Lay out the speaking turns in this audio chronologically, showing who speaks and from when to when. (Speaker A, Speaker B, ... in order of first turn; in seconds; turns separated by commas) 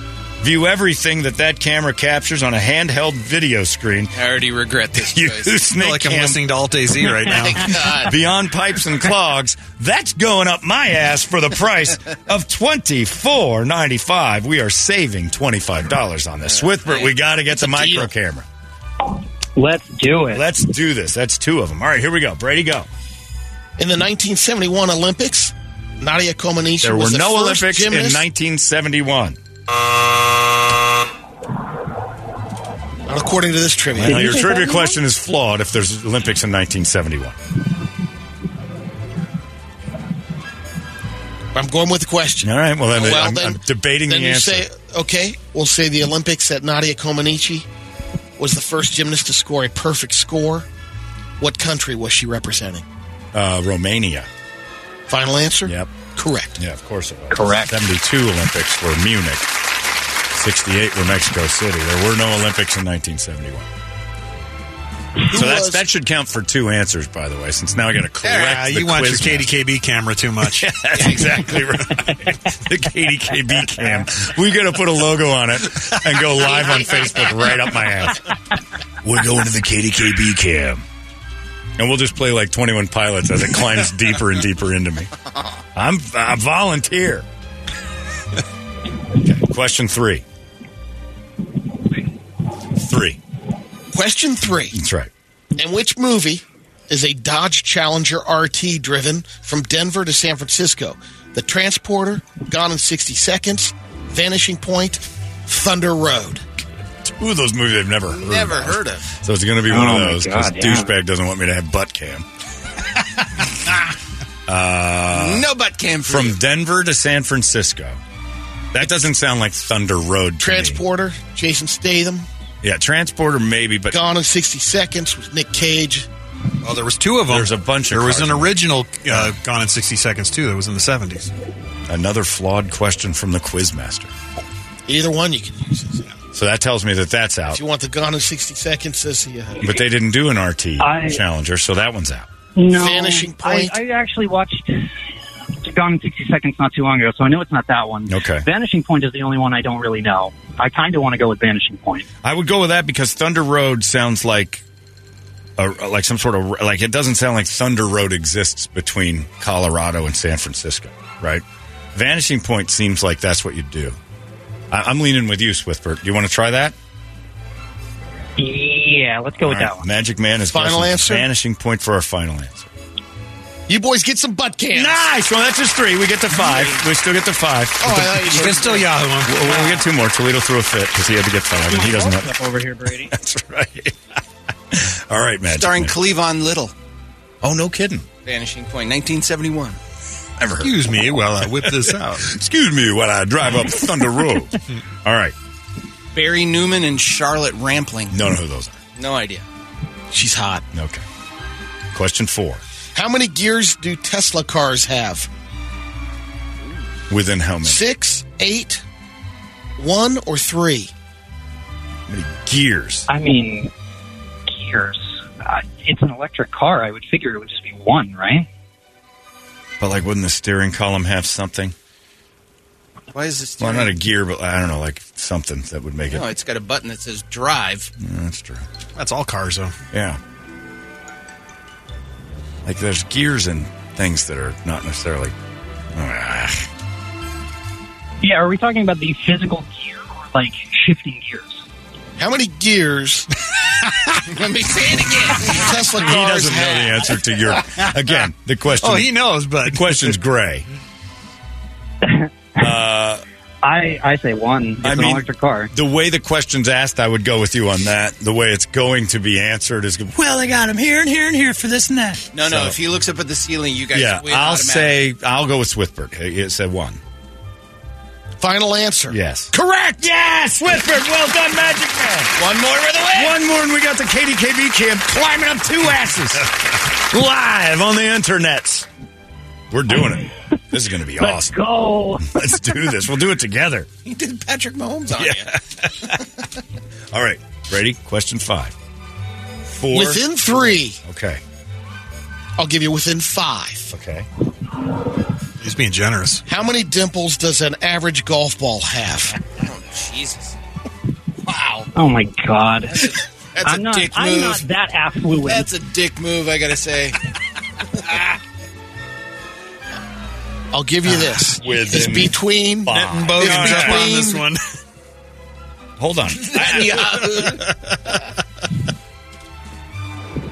Speaker A: 0.4-4.1, Speaker B: 4.1-5.5, Speaker A: 5.1-6.4, Speaker C: 5.7-8.0, Speaker B: 7.3-8.1, Speaker A: 8.0-18.4, Speaker B: 16.5-17.1, Speaker D: 19.6-20.4, Speaker A: 20.3-22.9, Speaker E: 23.8-28.2, Speaker A: 26.8-29.4, Speaker E: 33.1-34.5, Speaker A: 33.9-37.4, Speaker D: 34.1-34.9, Speaker E: 41.5-47.6, Speaker A: 42.4-44.6, Speaker E: 48.4-50.7, Speaker E: 51.4-52.8, Speaker A: 53.3-54.3, Speaker E: 55.1-56.6, Speaker A: 55.6-55.9, Speaker A: 56.6-59.5, Speaker D: 57.3-57.8, Speaker A: 60.3-63.7, Speaker E: 65.3-65.8, Speaker A: 65.3-69.5, Speaker B: 68.2-68.6, Speaker C: 68.3-70.7, Speaker A: 70.5-78.3, Speaker B: 70.9-71.5, Speaker B: 76.4-77.3, Speaker A: 79.0-80.8, Speaker A: 81.8-85.1, Speaker A: 85.7-87.2, Speaker A: 89.2-90.2, Speaker A: 92.8-93.2, Speaker E: 93.9-94.8, Speaker A: 94.7-95.1, Speaker E: 95.5-106.4, Speaker A: 107.0-112.2, Speaker B: 108.1-109.0, Speaker D: 109.7-110.9, Speaker A: 114.5-115.5, Speaker B: 115.1-116.4, Speaker A: 116.1-118.0, Speaker A: 118.7-120.8, Speaker E: 120.4-122.3, Speaker A: 122.6-124.0, Speaker E: 123.9-126.1, Speaker C: 126.6-131.3, Speaker A: 127.3-128.5, Speaker A: 129.1-129.3, Speaker A: 131.9-134.1, Speaker E: 134.8-136.1, Speaker A: 136.3-137.6, Speaker E: 137.5-139.8, Speaker A: 139.6-142.3, Speaker D: 140.8-141.2, Speaker D: 142.5-144.9, Speaker E: 142.7-143.8, Speaker D: 145.6-152.1, Speaker A: 148.1-148.5, Speaker A: 152.2-154.6, Speaker A: 155.6-161.4, Speaker A: 161.9-164.0, Speaker A: 164.7-166.7, Speaker D: 168.4-169.9, Speaker A: 169.4-172.7, Speaker E: 170.5-171.3, Speaker E: 173.7-175.1, Speaker A: 174.7-178.4, Speaker E: 177.8-178.9, Speaker C: 178.1-179.8, Speaker A: 179.2-182.3, Speaker D: 181.5-183.1, Speaker A: 183.1-183.9, Speaker A: 184.7-185.9, Speaker B: 185.5-186.7, Speaker A: 187.4-188.1, Speaker B: 188.2-189.8, Speaker A: 190.4-190.8, Speaker C: 190.6-192.3, Speaker A: 191.6-195.3, Speaker B: 196.1-198.2, Speaker A: 198.1-198.8, Speaker B: 199.0-199.4, Speaker E: 200.1-200.7, Speaker A: 200.7-201.0, Speaker A: 201.9-202.6, Speaker E: 202.9-205.3, Speaker A: 207.1-207.8, Speaker E: 207.6-208.8, Speaker E: 209.8-210.9, Speaker A: 212.1-213.1, Speaker D: 213.1-213.7, Speaker D: 214.5-218.5, Speaker A: 219.8-221.7, Speaker B: 223.1-223.9, Speaker A: 223.6-226.3, Speaker B: 226.1-227.9, Speaker A: 228.0-228.7, Speaker C: 228.9-229.7, Speaker A: 229.9-230.2, Speaker A: 232.6-235.3, Speaker A: 235.9-236.7, Speaker D: 238.2-241.6, Speaker E: 242.2-243.3, Speaker B: 244.3-245.7, Speaker E: 245.4-247.2, Speaker A: 246.0-249.1, Speaker C: 248.8-250.2, Speaker A: 249.6-250.7, Speaker D: 252.0-252.7, Speaker A: 252.6-253.2, Speaker D: 253.6-255.7, Speaker A: 254.8-262.8, Speaker B: 262.3-265.0, Speaker A: 263.9-267.0, Speaker E: 268.4-270.1, Speaker A: 269.1-272.3, Speaker B: 272.4-273.4, Speaker A: 273.1-276.5, Speaker A: 277.0-278.9, Speaker A: 279.7-281.6, Speaker D: 281.2-282.8, Speaker A: 282.2-283.9, Speaker B: 284.0-285.5, Speaker A: 285.1-286.2, Speaker A: 287.1-288.7, Speaker A: 289.7-291.4, Speaker E: 289.9-291.0, Speaker E: 292.6-293.9, Speaker A: 293.9-294.3, Speaker C: 295.6-296.4, Speaker E: 296.5-299.4, Speaker B: 299.6-300.6, Speaker B: 301.4-301.9, Speaker D: 301.9-303.1, Speaker B: 302.9-304.6, Speaker D: 303.6-305.7, Speaker B: 305.4-307.2, Speaker E: 310.7-314.5, Speaker C: 311.1-311.4, Speaker A: 311.6-314.1, Speaker C: 312.9-314.6, Speaker A: 316.0-317.4, Speaker B: 316.4-317.6, Speaker E: 316.7-317.0